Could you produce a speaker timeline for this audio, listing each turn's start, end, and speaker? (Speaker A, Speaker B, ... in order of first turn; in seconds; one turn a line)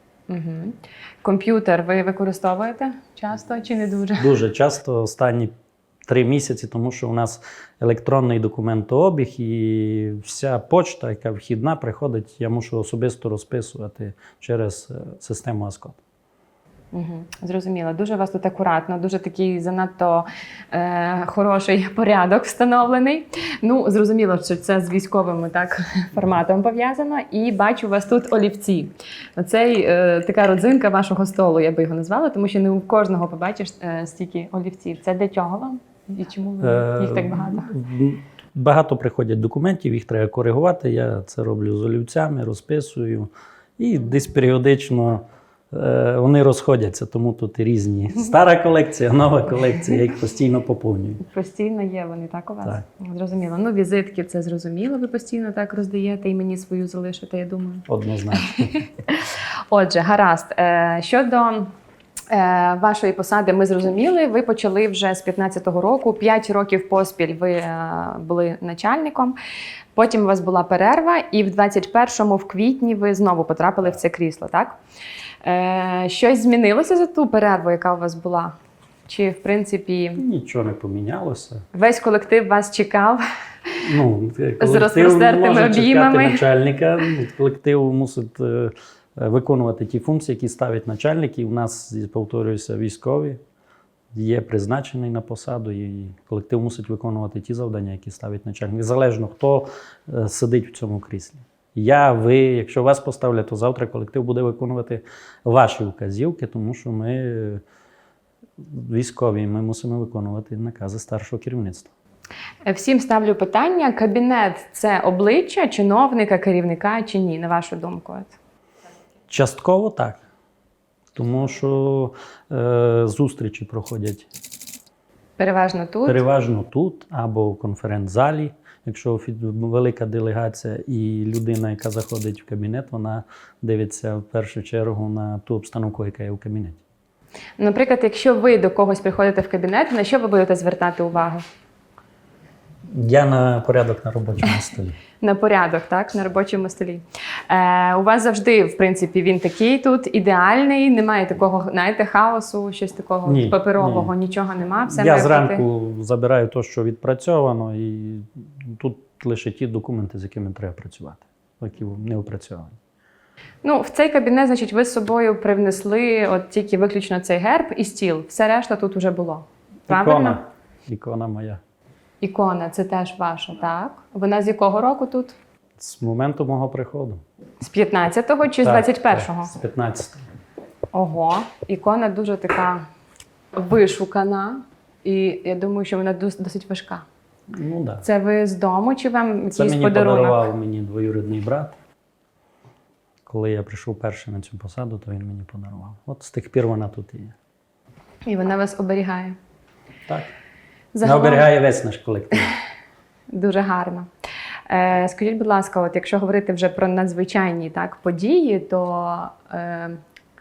Speaker A: 0.3-4.3
Speaker B: 4.2-5.5
Speaker B: 6.1-16.0
Speaker A: 16.9-37.7
Speaker B: 36.6-51.2
Speaker A: 51.2-57.9
Speaker B: 57.9-58.8
Speaker A: 58.4-61.7
Speaker A: 62.3-69.4
Speaker A: 69.9-74.8
Speaker A: 75.4-78.5
Speaker A: 79.1-80.2
Speaker B: 80.2-81.6
Speaker A: 81.7-83.2
Speaker B: 83.8-93.4
Speaker A: 84.6-86.4
Speaker B: 94.1-107.6
Speaker B: 108.6-111.9
Speaker A: 112.7-118.3
Speaker B: 119.3-120.2
Speaker B: 121.1-124.3
Speaker A: 125.4-126.2
Speaker B: 126.0-136.8
Speaker A: 137.6-141.4
Speaker B: 142.9-145.0
Speaker A: 145.2-155.6
Speaker B: 153.2-154.1
Speaker B: 154.9-162.8
Speaker A: 163.6-170.4
Speaker B: 169.9-171.6
Speaker A: 172.2-175.3
Speaker B: 175.8-177.2
Speaker A: 177.6-179.5
Speaker B: 178.6-180.2
Speaker A: 180.9-182.8
Speaker A: 183.5-187.0
Speaker B: 187.5-188.0
Speaker A: 188.0-190.5
Speaker B: 189.5-191.8
Speaker B: 193.2-197.3
Speaker A: 198.2-199.3
Speaker B: 200.1-200.3
Speaker A: 200.9-201.5
Speaker B: 201.0-202.5
Speaker A: 203.3-204.1
Speaker A: 204.7-210.0